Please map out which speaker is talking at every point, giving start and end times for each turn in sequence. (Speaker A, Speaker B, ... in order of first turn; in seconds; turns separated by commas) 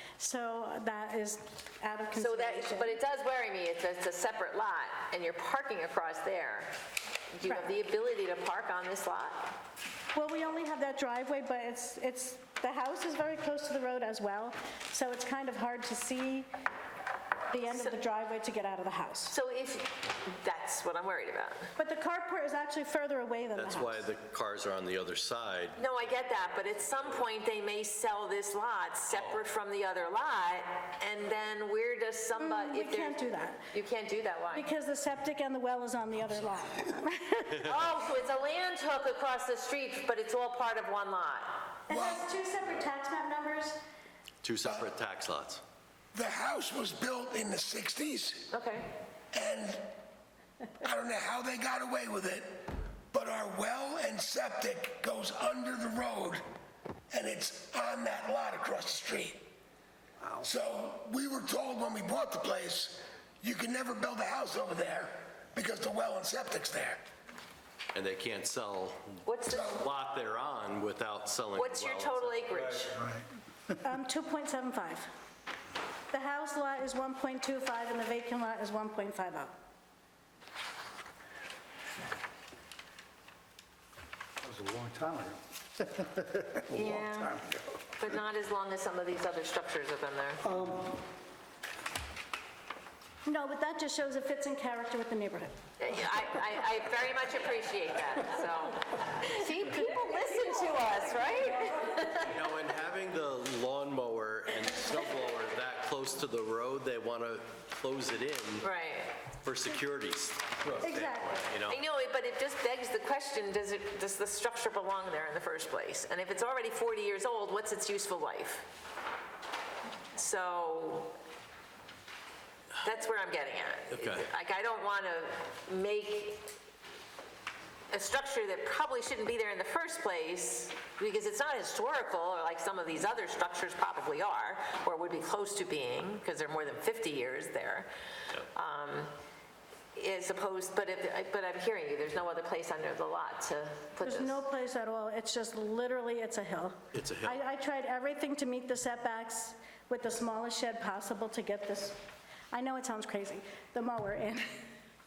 Speaker A: 0.2-3.0, Speaker B: 2.2-6.7, Speaker B: 7.4-9.4, Speaker A: 7.4-7.8, Speaker A: 10.1-16.5, Speaker A: 17.5-19.4, Speaker B: 17.6-17.9, Speaker B: 19.3-21.6, Speaker A: 21.8-24.0, Speaker C: 23.5-25.9, Speaker B: 25.8-33.2, Speaker A: 32.4-33.7, Speaker B: 33.7-34.7, Speaker A: 34.5-37.8, Speaker B: 37.7-41.7, Speaker A: 41.9-43.8, Speaker D: 41.9-42.2, Speaker C: 44.4-45.6, Speaker D: 46.1-48.5, Speaker B: 48.5-48.9, Speaker D: 49.3-49.9, Speaker D: 50.8-56.4, Speaker D: 57.1-59.4, Speaker D: 60.4-67.0, Speaker C: 67.9-72.9, Speaker B: 69.2-69.8, Speaker D: 69.5-69.8, Speaker B: 71.5-72.9, Speaker E: 72.9-73.3, Speaker A: 73.8-75.1, Speaker A: 76.1-79.5, Speaker E: 84.4-87.8, Speaker B: 86.8-87.2, Speaker B: 88.0-90.3, Speaker E: 90.4-91.0, Speaker A: 93.2-95.6, Speaker B: 95.8-102.3, Speaker C: 102.2-108.7, Speaker B: 108.6-109.2, Speaker C: 109.3-111.8, Speaker A: 110.8-111.4, Speaker B: 111.7-118.7, Speaker B: 120.1-121.1, Speaker B: 122.8-126.5, Speaker C: 123.9-124.3, Speaker B: 127.9-137.9, Speaker B: 138.5-139.1, Speaker B: 139.9-144.4, Speaker A: 144.0-152.0, Speaker C: 146.9-147.4, Speaker A: 152.5-154.4